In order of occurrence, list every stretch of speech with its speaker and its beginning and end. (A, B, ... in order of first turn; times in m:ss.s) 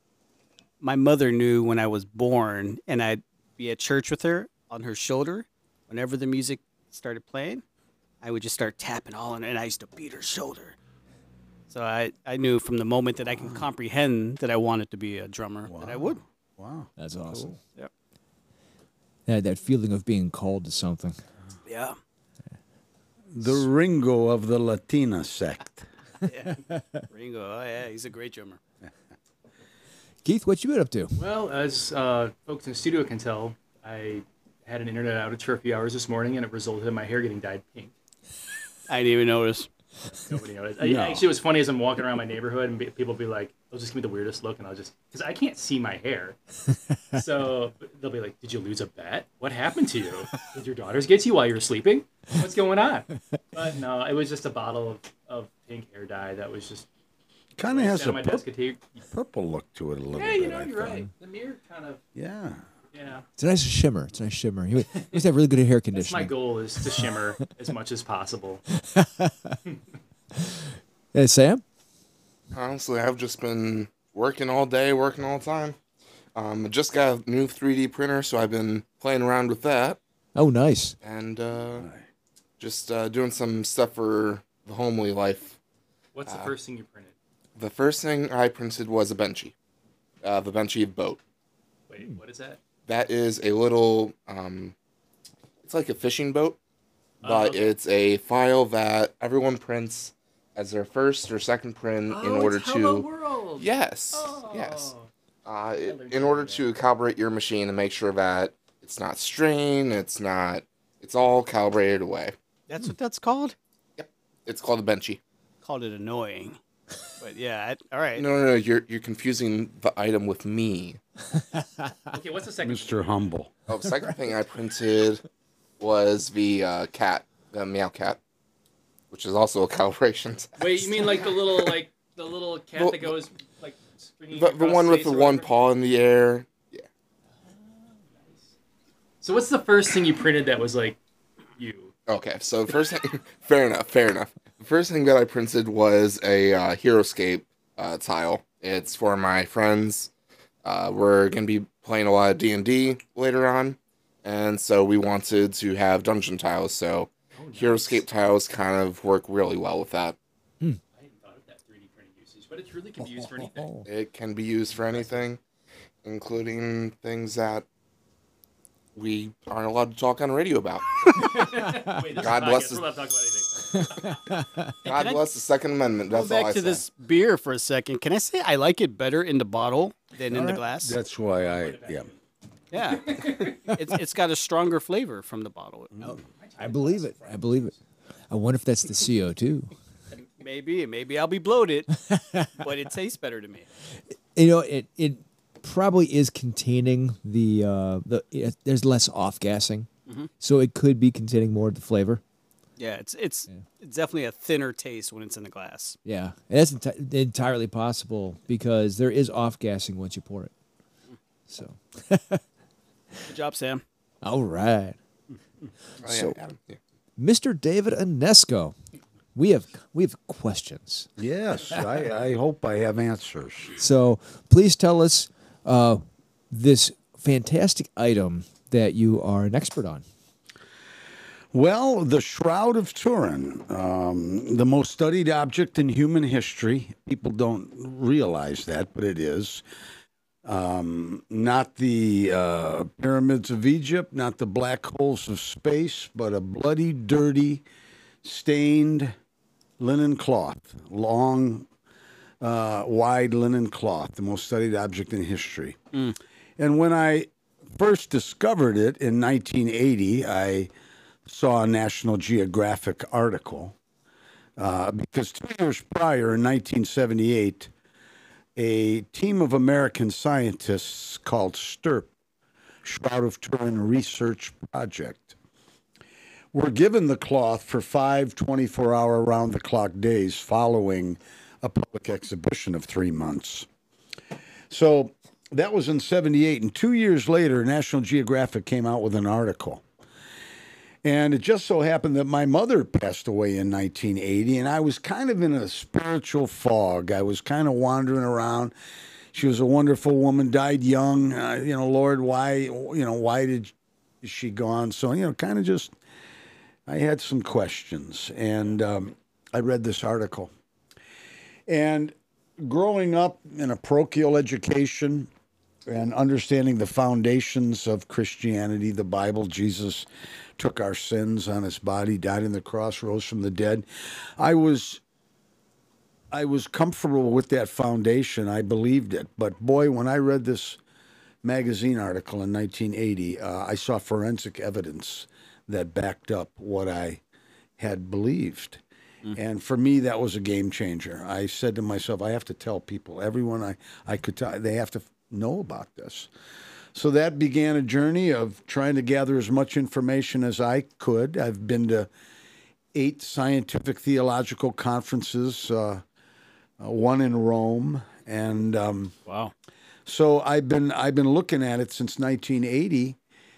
0:00.8-0:07.6 A
0:08.2-0:10.8 A
0:11.7-0:16.2 A
0:15.7-0:17.5 B
0:17.0-0:17.6 C
0:19.3-0:21.2 C
0:21.6-0:22.0 A
0:23.3-0:25.9 B
0:26.2-0:28.6 A
0:26.7-0:27.0 C
0:30.2-0:31.3 C
0:31.2-0:37.9 D
0:38.9-0:39.7 A
0:40.1-0:46.4 D
0:40.8-0:41.2 B
0:47.1-0:56.9 D
0:57.6-0:58.4 B
0:57.7-0:59.0 D
0:59.1-1:01.0 B
1:00.1-1:02.0 D
1:02.1-1:02.6 B
1:02.9-1:03.2 D
1:03.4-1:07.0 C
1:05.9-1:08.6 D
1:08.7-1:09.6 C
1:11.1-1:11.6 C
1:12.5-1:15.8 E
1:16.4-1:20.0 E
1:20.3-1:20.9 C
1:21.0-1:21.9 E
1:22.6-1:25.6 E
1:26.1-1:27.1 D
1:27.6-1:29.5 E
1:30.2-1:31.2 E
1:31.9-1:32.6 D
1:32.9-1:34.7 E
1:35.6-1:36.6 E
1:37.2-1:37.7 D
1:37.2-1:44.9 E
1:42.1-1:45.1 D
1:45.4-1:52.3 E
1:45.8-1:46.7 D
1:52.7-1:53.5 A
1:54.0-1:55.2 E
1:55.6-1:56.6 A
1:57.2-1:58.2 A
1:58.1-2:01.0 E
2:02.1-2:03.3 D
2:02.6-2:03.5 B
2:03.7-2:05.2 E
2:05.8-2:08.2 E
2:09.1-2:11.6 E
2:10.6-2:15.5 D
2:12.8-2:13.1 E
2:14.3-2:16.8 E
2:17.8-2:18.5 D
2:19.2-2:21.0 D
2:21.6-2:21.9 D
2:22.1-2:30.1 E
2:30.6-2:40.2 E
2:37.4-2:38.0 D
2:40.9-2:43.8 D
2:43.2-2:43.4 B
2:43.8-2:45.4 E
2:46.0-2:47.6 E
2:48.9-2:51.6 E
2:51.1-2:54.2 D
2:52.1-2:52.9 E
2:53.7-2:54.7 C
2:54.8-2:56.8 E
2:54.8-2:55.2 A
2:56.1-3:01.0 A
3:00.3-3:00.6 C
3:00.3-3:02.1 B
3:01.4-3:02.1 D
3:02.7-3:06.2 A
3:02.8-3:03.8 D
3:06.2-3:07.8 D
3:06.6-3:07.7 C
3:08.3-3:09.7 C
3:10.4-3:13.7 A
3:12.1-3:12.6 C
3:14.3-3:22.2 C
3:22.8-3:26.0 A
3:26.0-3:30.5 C
3:31.5-3:32.4 C
3:33.3-3:33.8 A
3:34.2-3:35.0 C
3:36.0-3:36.8 E
3:36.0-3:36.4 C
3:37.2-3:38.8 C
3:39.3-3:41.1 C
3:41.2-3:43.7 B
3:43.8-3:50.0 C
3:51.5-3:59.6 B
4:00.4-4:07.6 B
4:08.2-4:09.1 B
4:09.8-4:11.7 B
4:12.4-4:15.8 B
4:16.6-4:20.7 B
4:21.2-4:23.7 B
4:24.6-4:27.7 B
4:28.6-4:32.1 B
4:32.8-4:35.4 B
4:36.5-4:43.7 B
4:44.7-4:49.8 B
4:51.0-4:58.7 B
4:59.3-5:05.9 B
5:06.9-5:10.5 B
5:11.7-5:15.3 B
5:15.9-5:20.0 B
5:20.6-5:23.8 B
5:24.4-5:25.0 B
5:26.3-5:30.8 B
5:31.4-5:37.2 B
5:37.8-5:38.8 B
5:39.3-5:46.3 B
5:46.9-5:52.1 B
5:52.9-5:56.0 B
5:56.8-5:59.1 B
5:59.2-5:59.5 A
6:00.0-6:03.2 B